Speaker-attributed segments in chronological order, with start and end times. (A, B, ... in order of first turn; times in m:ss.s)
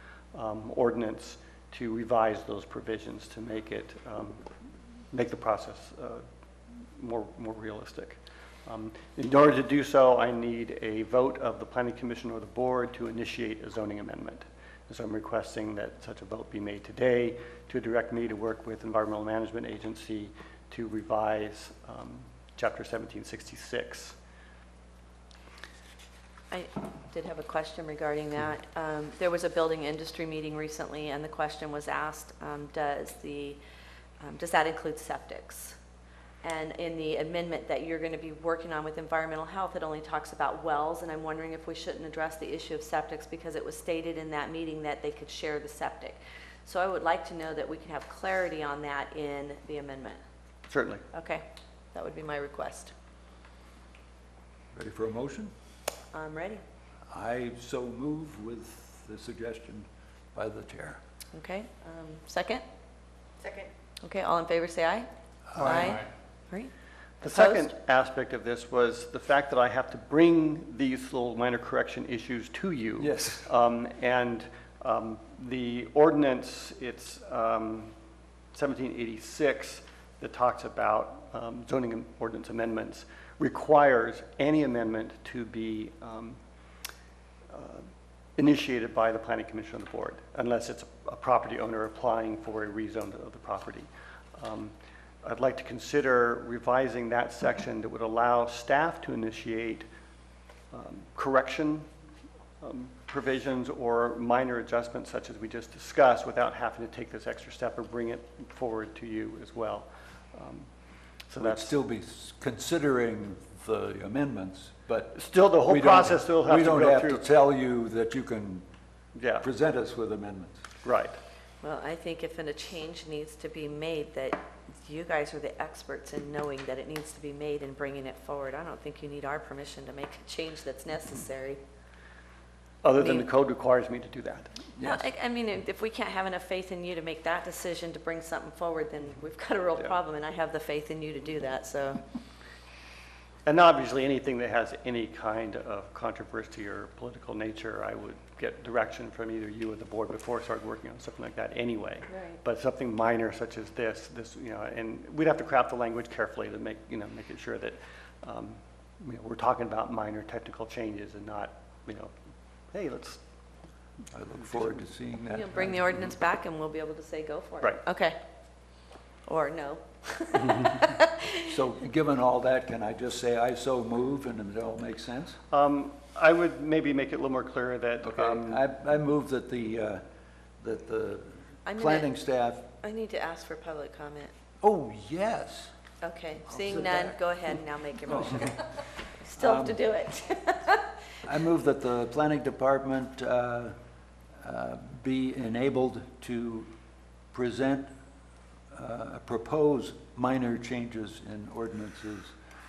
0:00.3-0:04.5 A
0:05.1-0:06.3 A
0:07.0-0:24.2 A
0:26.5-0:33.6 B
0:34.2-0:35.8 B
0:36.4-0:50.2 B
0:50.7-0:51.0 A
0:51.1-0:52.9 B
0:54.7-0:55.5 C
0:56.1-0:56.6 B
0:57.1-1:01.0 C
1:01.3-1:02.6 B
1:04.0-1:07.7 B
1:05.5-1:06.0 C
1:07.2-1:17.9 A
1:13.0-1:13.5 C
1:18.5-1:26.4 A
1:27.5-1:39.9 A
1:40.7-1:41.9 A
1:42.6-1:50.7 A
1:51.3-1:51.8 A
1:51.4-1:58.6 C
1:55.1-1:57.3 A
1:59.1-1:59.5 A
1:59.4-2:00.6 C
2:00.8-2:01.2 A
2:01.6-2:11.6 B
2:12.8-2:14.6 A
2:13.0-2:13.3 B
2:14.8-2:15.1 C
2:14.8-2:22.0 B
2:23.5-2:42.1 A
2:32.1-2:32.4 B
2:42.7-2:43.2 A
2:44.1-2:46.1 C
2:45.3-2:48.2 B
2:49.3-2:51.6 B
2:51.4-2:55.4 C
2:55.5-2:58.6 A
2:58.0-3:00.0 C
3:00.6-3:02.7 C
3:01.7-3:02.1 B
3:02.8-3:04.3 B
3:04.6-3:05.7 C
3:06.0-3:10.9 B
3:06.5-3:07.2 C
3:08.1-3:08.6 C
3:09.4-3:09.8 C
3:11.2-3:13.8 C
3:14.4-3:16.7 C
3:17.3-3:17.9 C
3:18.7-3:22.3 C